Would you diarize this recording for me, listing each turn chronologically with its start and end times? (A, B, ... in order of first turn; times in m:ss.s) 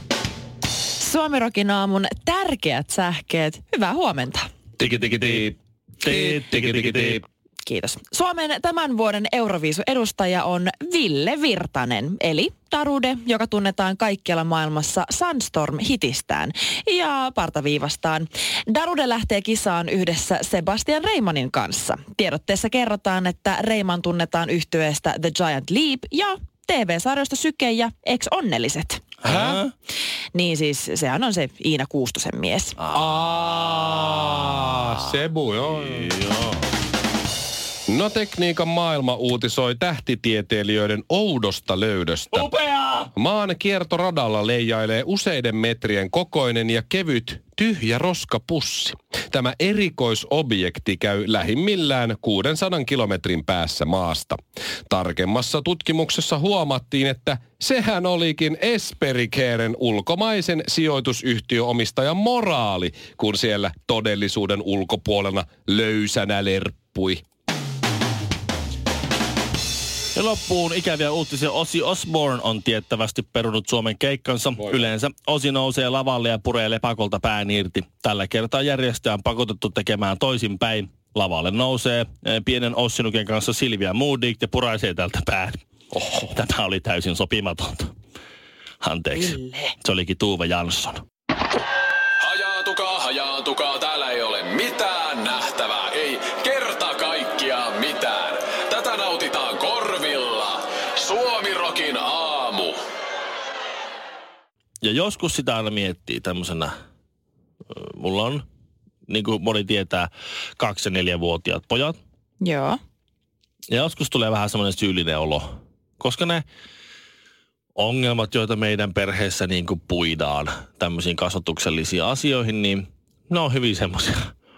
0:01.0-0:04.5 A
0:04.8-0:07.2 B
0:05.0-0:05.5 C
0:06.0-0:07.2 C
0:07.6-0:29.0 A
0:29.2-0:29.7 C
0:29.2-0:29.6 B
0:30.3-0:32.8 A
0:32.8-0:33.1 C
0:32.9-0:36.2 B
0:33.7-0:34.8 C
0:35.6-0:36.6 C
0:37.9-0:42.5 B
0:42.3-0:43.1 C
0:43.2-1:07.2 B
1:10.1-1:25.6 C
1:26.1-1:27.9 C
1:28.8-1:31.0 C
1:29.2-1:29.7 A
1:32.2-1:42.8 D
1:44.8-1:46.7 C
1:47.7-1:48.4 C
1:49.1-1:52.0 C
1:52.4-1:52.8 A
1:53.7-1:55.5 C
1:56.0-1:56.4 C
1:57.8-2:04.3 C